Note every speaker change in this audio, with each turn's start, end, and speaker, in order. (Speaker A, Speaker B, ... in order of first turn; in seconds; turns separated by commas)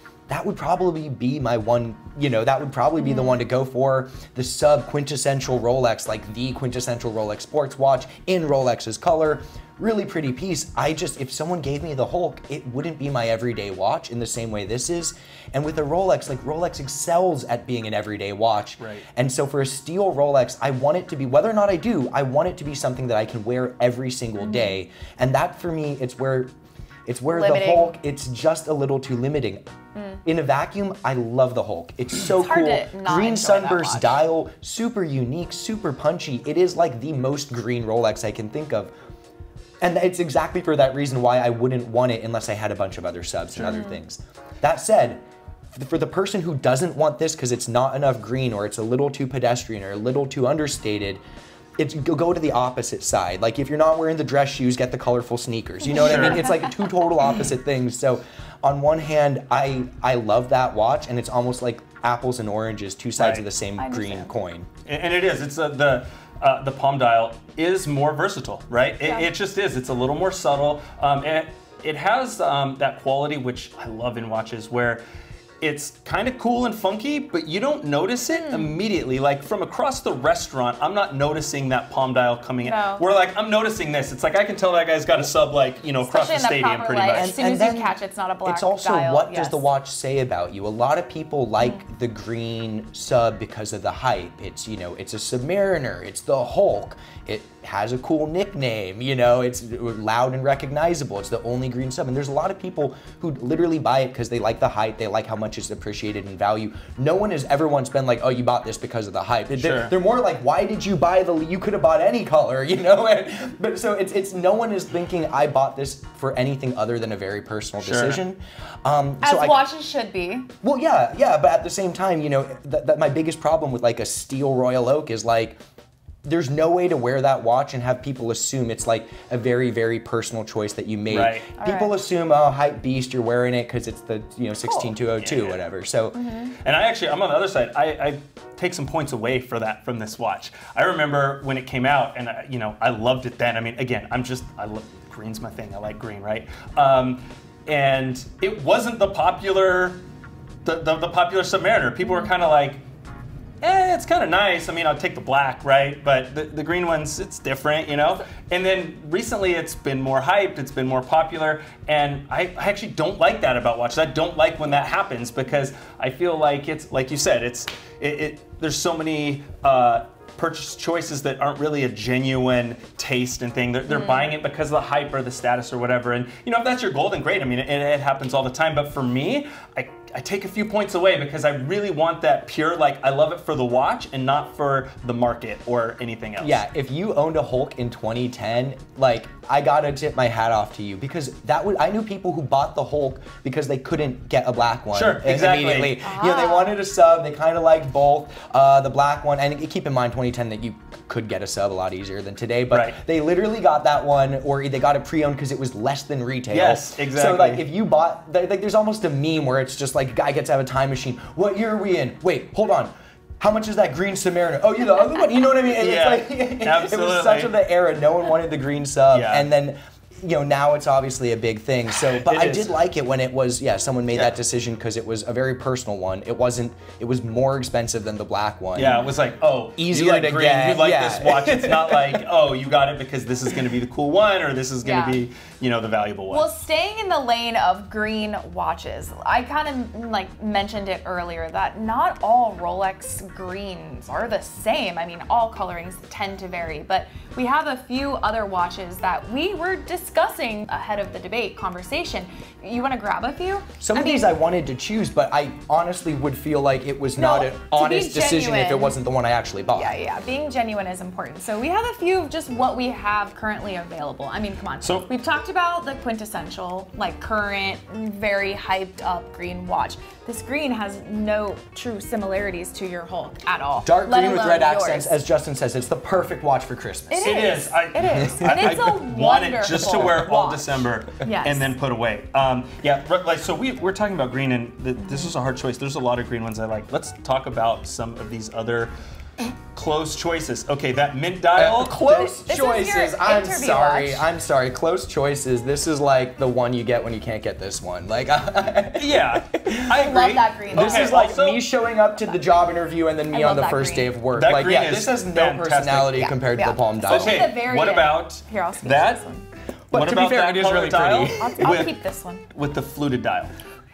Speaker A: 0.3-26.5, Speaker B: 3.0-3.4, Speaker C: 18.8-19.1, Speaker B: 24.4-24.7, Speaker A: 27.1-29.6, Speaker B: 27.3-27.9, Speaker B: 29.9-30.2, Speaker A: 30.2-38.9, Speaker B: 32.2-34.2, Speaker A: 39.8-51.2, Speaker B: 43.6-44.0, Speaker A: 51.8-64.7, Speaker B: 55.8-56.8, Speaker C: 55.9-56.4, Speaker C: 63.2-63.5, Speaker B: 63.8-64.3, Speaker C: 64.9-75.0, Speaker C: 75.6-87.4, Speaker B: 78.4-78.8, Speaker B: 82.6-83.0, Speaker B: 86.1-89.7, Speaker A: 87.1-119.6, Speaker C: 109.6-109.9, Speaker C: 117.8-118.2, Speaker B: 119.2-120.5, Speaker A: 120.6-125.6, Speaker A: 126.2-136.2, Speaker C: 131.1-131.5, Speaker B: 131.6-131.9, Speaker C: 135.2-135.6, Speaker B: 136.1-136.5, Speaker C: 136.6-150.0, Speaker C: 150.7-152.8, Speaker B: 152.0-152.3, Speaker C: 153.6-186.6, Speaker B: 173.9-174.3, Speaker A: 186.4-229.0, Speaker C: 194.9-196.0, Speaker B: 196.0-196.8, Speaker C: 202.7-203.0, Speaker C: 206.5-207.6, Speaker C: 215.8-217.5, Speaker C: 219.1-219.5, Speaker C: 222.0-222.8, Speaker C: 224.1-224.4, Speaker C: 228.7-236.5, Speaker B: 228.8-229.1, Speaker A: 229.8-232.2, Speaker B: 234.8-235.2, Speaker B: 236.3-254.3, Speaker A: 253.8-260.0, Speaker B: 257.2-259.0, Speaker B: 259.7-275.2, Speaker C: 264.8-265.1, Speaker A: 273.8-277.6, Speaker B: 277.1-281.7, Speaker C: 277.2-292.3, Speaker A: 278.2-278.9, Speaker B: 285.0-285.3, Speaker A: 291.6-299.9, Speaker B: 292.1-294.3, Speaker C: 299.0-301.6, Speaker B: 299.9-301.2, Speaker A: 300.7-307.5, Speaker B: 303.3-304.1, Speaker C: 304.3-306.4, Speaker B: 306.5-309.4, Speaker C: 307.1-309.2, Speaker A: 309.9-311.7, Speaker C: 309.9-311.9, Speaker B: 311.4-312.4, Speaker C: 312.5-313.5